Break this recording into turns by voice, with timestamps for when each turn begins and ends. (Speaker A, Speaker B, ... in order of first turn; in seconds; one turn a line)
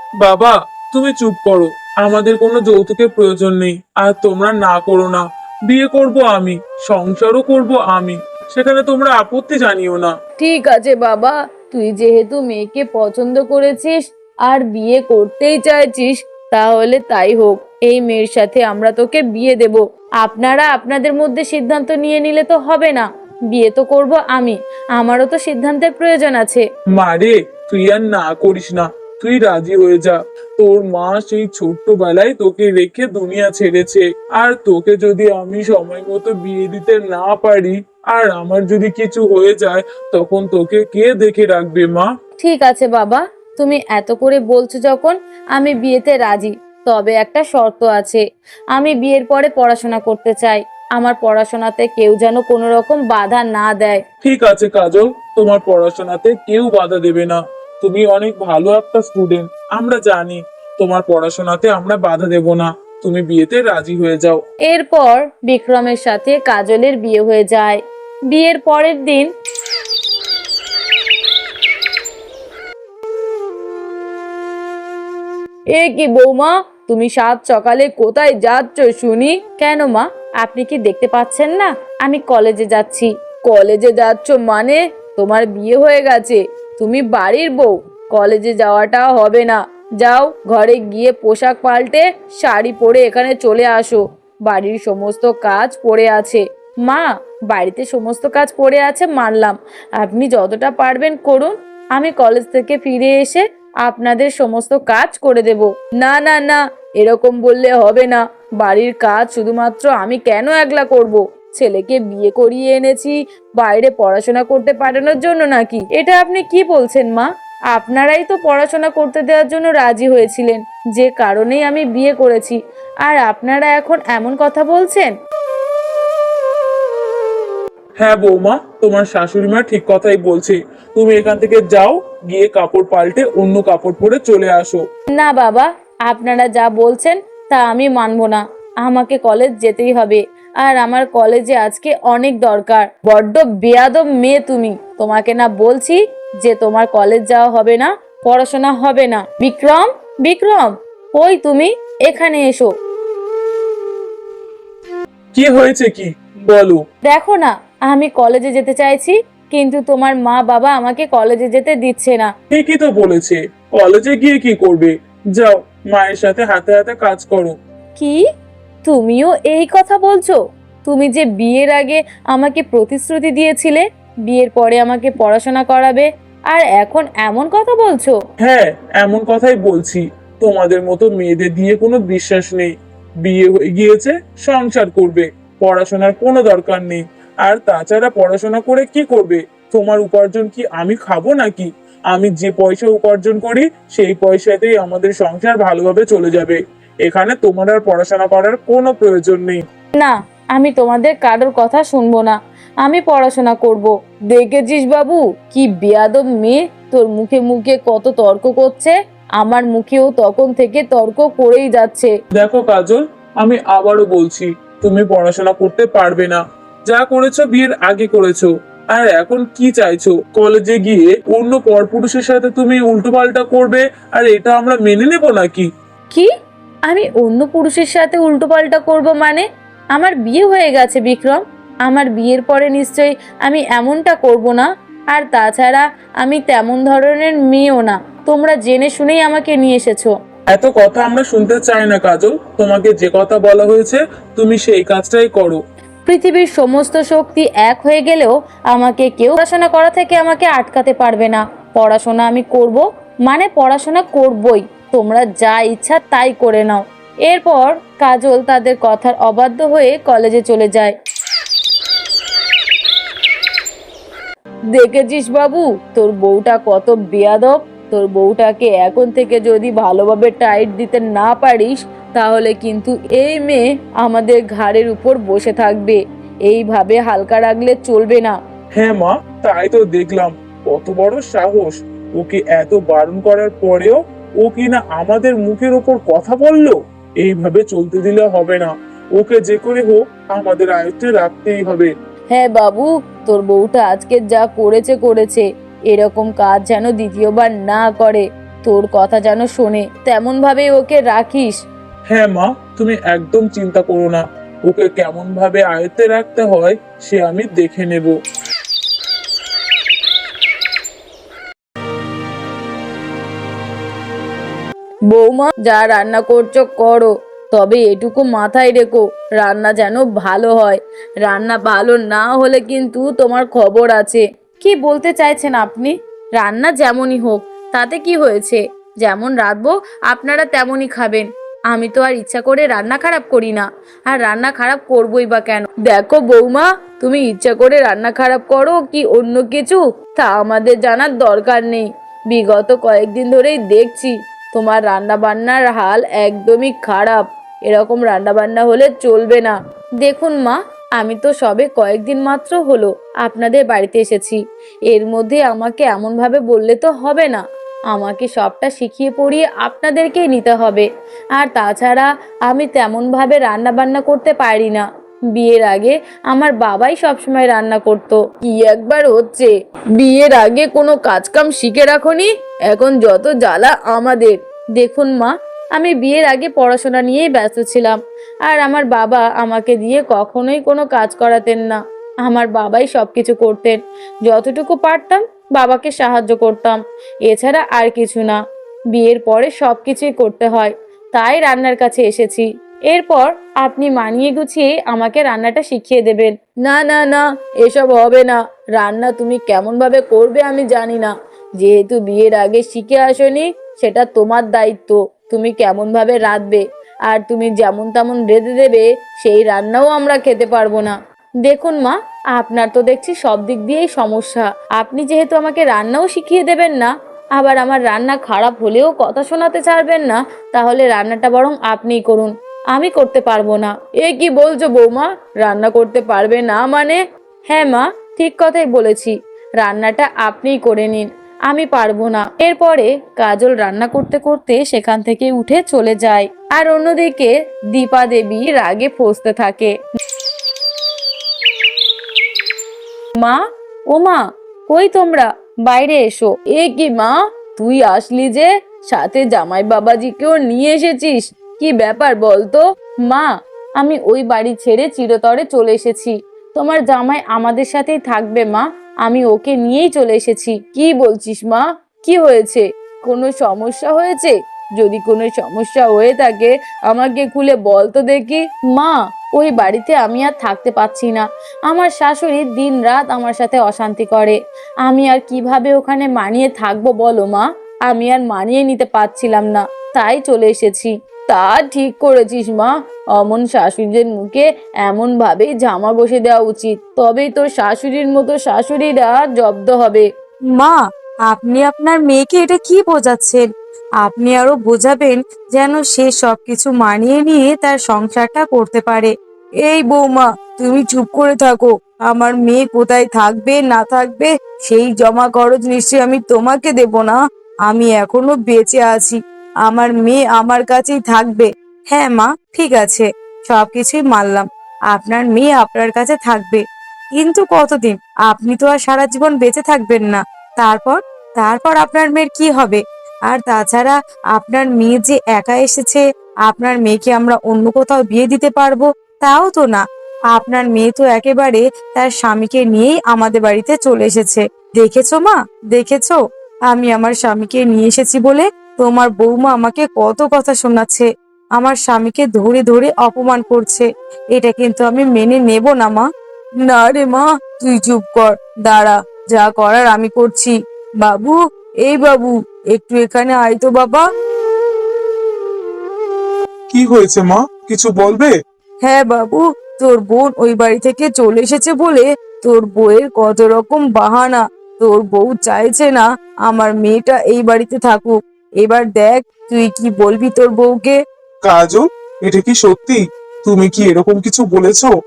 Speaker A: 0.2-10.1
Speaker B: 10.4-26.6
Speaker A: 26.9-42.1
Speaker B: 42.4-48.2
Speaker B: 48.7-54.0
Speaker A: 54.2-64.4
Speaker B: 64.7-69.3
Speaker B: 75.7-125.1
Speaker A: 128.0-134.8
Speaker B: 135.1-152.7
Speaker A: 155.3-156.8
Speaker B: 157.1-162.3
Speaker A: 162.5-167.6
Speaker B: 168.8-178.2
Speaker A: 178.4-199.6
Speaker B: 199.9-212.1
Speaker A: 212.3-225.7
Speaker B: 226.9-240.1
Speaker A: 240.5-245.6
Speaker B: 246.1-260.9
Speaker B: 264.7-278.4
Speaker A: 278.8-291.9
Speaker B: 292.3-301.6
Speaker A: 302.1-308.1
Speaker B: 315.1-388.4
Speaker B: 388.9-439.7
Speaker B: 443.2-490.1
Speaker C: 490.5-493.4
Speaker C: 494.0-499.1
Speaker C: 499.6-516.6
Speaker C: 517.2-536.2
Speaker C: 536.7-546.0
Speaker C: 546.6-554.0
Speaker A: 556.7-558.3
Speaker C: 558.8-571.0
Speaker A: 571.4-574.9